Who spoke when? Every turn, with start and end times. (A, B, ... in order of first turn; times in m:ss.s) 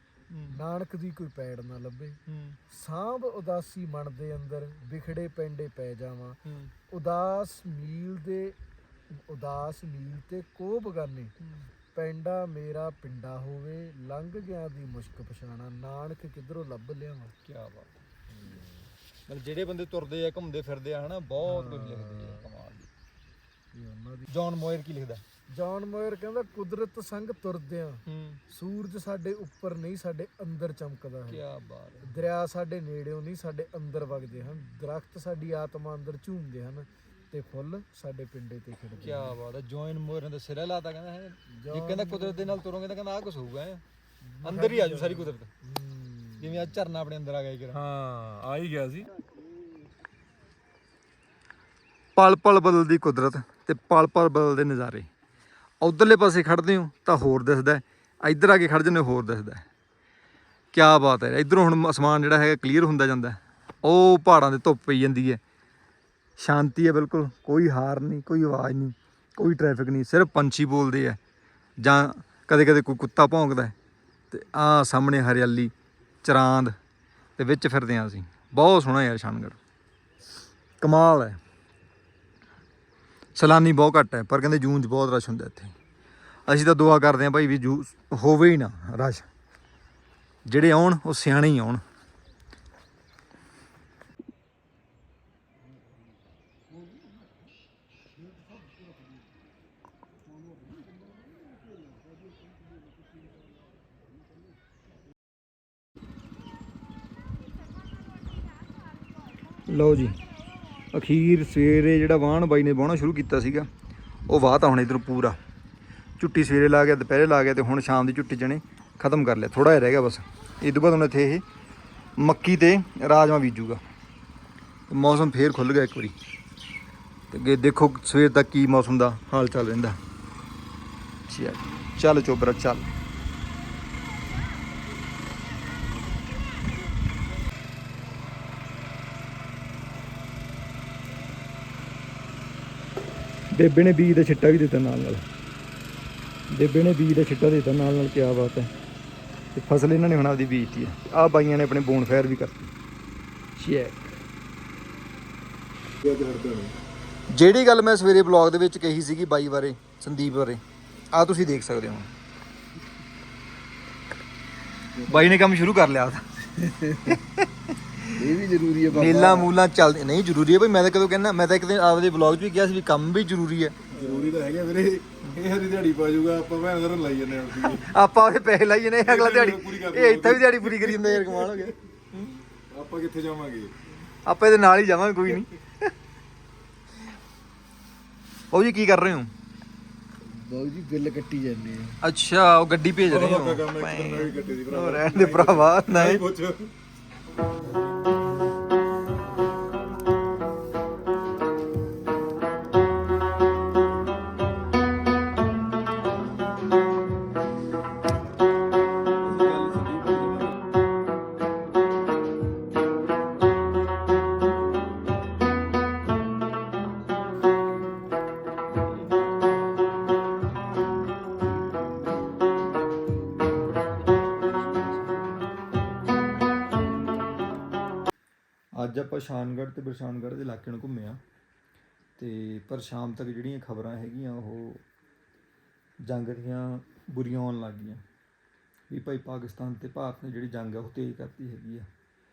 0:00.3-0:00.6 A
0:00.5-0:08.6 B
0:02.3-0:02.6 A
0:06.5-0:06.7 A
0:09.1-0:11.4 B
0:11.4-0:11.7 A
0:11.9-0:17.4 B
0:17.4-0:17.9 A
0:18.3-0:18.9 B
0:19.3-0:22.9 A
0:21.4-0:22.4 B
0:23.7-0:24.3 B
0:24.3-0:25.2 A
0:25.5-0:31.4 B
0:28.1-0:28.4 A
0:31.3-0:32.1 A
0:32.0-0:39.4 B
0:39.0-0:43.8 A
0:41.5-0:42.6 B
0:44.2-0:46.8 B
0:44.4-0:45.5 A
0:46.4-0:47.8 A
0:47.7-0:49.1 C
0:52.2-0:55.1 A
0:55.8-0:59.6 A
1:00.7-1:05.4 A
1:06.4-1:11.2 A
1:11.8-1:13.8 A
1:14.3-1:15.7 A
1:16.2-1:16.8 A
1:17.4-1:19.6 A
1:20.8-1:21.4 A
1:23.4-1:25.7 A
1:26.5-1:29.3 A
1:30.5-1:31.8 A
1:49.7-1:50.2 A
1:50.9-1:53.7 A
1:54.3-1:55.4 A
1:56.2-2:01.4 A
2:02.2-2:03.8 A
2:04.9-2:06.2 A
2:07.3-2:10.0 A
2:11.3-2:12.9 A
2:23.5-2:25.2 A
2:26.5-2:28.7 A
2:29.5-2:32.7 A
2:33.6-2:34.1 A
2:36.0-2:36.8 C
2:37.3-2:42.1 A
2:45.0-2:45.3 B
2:45.1-2:46.2 A
2:46.6-2:47.2 B
2:47.0-2:48.1 A
2:48.1-2:49.5 B
2:48.9-2:53.8 A
2:53.9-2:57.9 C
2:54.0-2:54.3 B
2:57.6-3:01.8 A
2:59.0-3:03.7 C
3:04.3-3:05.9 A
3:08.5-3:09.3 A
3:10.3-3:12.0 B
3:12.0-3:16.3 A
3:13.1-3:16.7 C
3:29.2-3:30.6 C
3:48.8-3:51.2 A
3:52.2-3:54.8 A
3:56.1-3:58.0 A
3:58.9-4:01.9 A